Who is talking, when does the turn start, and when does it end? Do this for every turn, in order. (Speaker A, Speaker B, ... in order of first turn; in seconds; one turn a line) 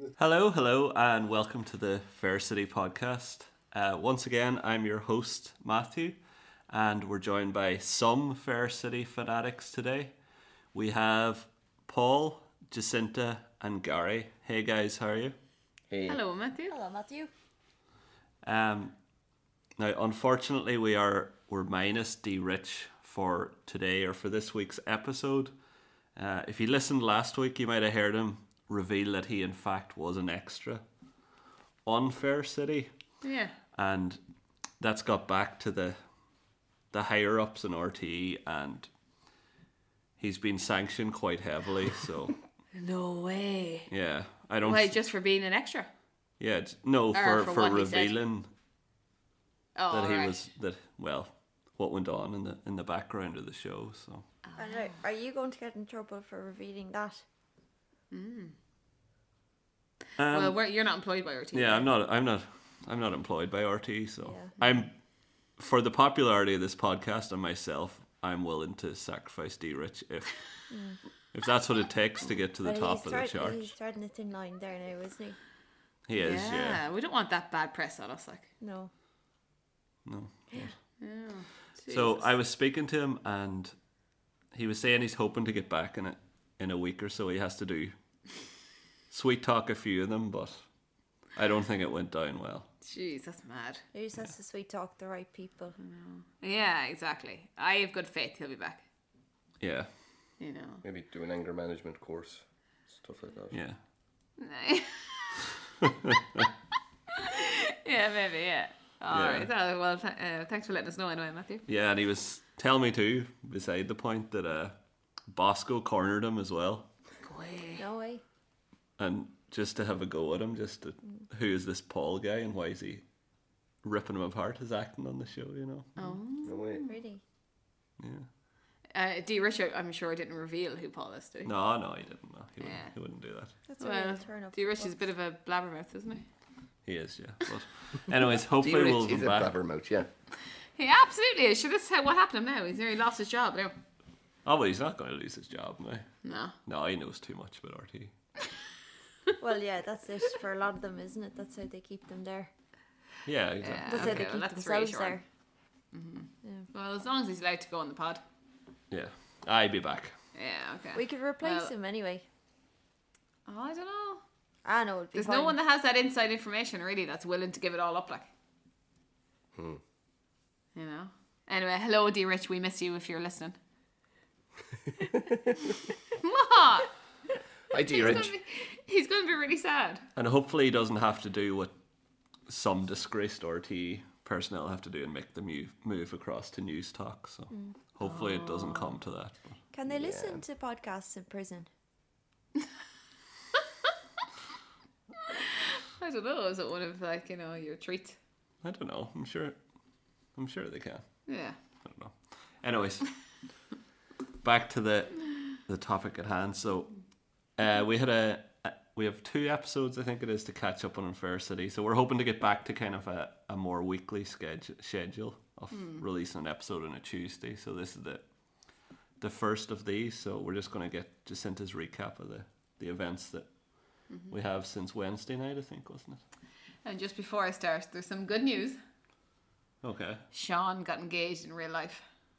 Speaker A: 0.2-6.2
Speaker A: 6.7-10.1
Speaker A: 10.7-15.4
Speaker B: 15.9-16.2
Speaker C: 16.1-16.8
Speaker D: 16.7-17.3
Speaker A: 18.4-18.9
Speaker A: 19.8-25.5
Speaker A: 26.1-30.8
Speaker A: 31.9-32.9
Speaker C: 33.2-33.5
Speaker A: 33.7-34.2
Speaker A: 34.8-36.0
Speaker A: 36.9-38.9
Speaker A: 40.2-42.4
Speaker C: 42.8-43.9
Speaker A: 43.9-45.0
Speaker C: 44.6-45.9
Speaker A: 46.4-48.5
Speaker C: 47.1-48.2
Speaker C: 49.8-50.4
Speaker A: 49.9-54.2
Speaker C: 54.5-55.0
Speaker D: 54.6-57.2
Speaker C: 58.1-58.5
Speaker A: 60.2-60.6
Speaker C: 60.3-61.9
Speaker A: 61.5-65.0
Speaker D: 64.2-64.5
Speaker A: 65.5-70.5
Speaker D: 70.7-71.0
Speaker A: 71.3-73.7
Speaker D: 72.6-75.4
Speaker A: 76.1-76.8
Speaker C: 76.2-78.5
Speaker D: 78.6-78.9
Speaker A: 80.0-80.7
Speaker C: 81.0-82.3
Speaker A: 81.9-83.8
Speaker A: 84.5-87.9
Speaker A: 89.1-90.7
Speaker A: 91.3-92.7
Speaker C: 92.8-93.8
Speaker D: 93.9-95.8
Speaker C: 95.8-98.8
Speaker A: 99.6-99.9
Speaker C: 100.4-100.8
Speaker B: 100.8-103.6
Speaker A: 103.5-103.8
Speaker C: 104.4-105.4
Speaker C: 107.2-111.7
Speaker A: 109.1-109.5
Speaker A: 111.7-114.8
Speaker A: 115.3-116.9
Speaker C: 117.2-117.8
Speaker D: 117.8-118.2
Speaker A: 119.0-123.0
Speaker A: 123.8-126.1
Speaker C: 126.0-127.0
Speaker B: 126.4-126.8
Speaker D: 126.8-127.2
Speaker A: 128.0-128.3
Speaker C: 128.9-131.5
Speaker A: 131.5-133.5
Speaker C: 132.6-132.9
Speaker D: 133.7-135.0
Speaker C: 133.8-136.3
Speaker A: 136.8-139.5
Speaker B: 138.6-140.1
Speaker C: 140.8-143.8
Speaker A: 144.4-148.1
Speaker C: 146.2-146.6
Speaker D: 149.4-152.5
Speaker A: 153.3-154.3
Speaker C: 153.6-155.2
Speaker D: 153.9-155.2
Speaker C: 155.9-158.2
Speaker A: 158.9-160.2
Speaker C: 160.3-161.7
Speaker D: 160.9-162.2
Speaker C: 163.5-164.2
Speaker D: 164.7-165.6
Speaker C: 165.1-168.3
Speaker C: 170.8-173.6
Speaker C: 176.1-176.9
Speaker B: 177.7-178.3
Speaker C: 177.9-180.1
Speaker A: 180.2-181.7
Speaker A: 182.5-189.6
Speaker C: 188.0-189.0
Speaker D: 189.7-191.7
Speaker B: 189.9-190.4
Speaker C: 195.2-198.2
Speaker A: 198.6-199.6
Speaker A: 200.3-201.2
Speaker C: 201.3-201.6
Speaker A: 201.8-203.2
Speaker A: 204.4-207.0
Speaker A: 207.6-218.3
Speaker C: 215.7-216.0
Speaker A: 219.2-226.2
Speaker C: 224.1-224.4
Speaker C: 226.8-228.8
Speaker A: 229.8-230.2
Speaker C: 230.3-232.1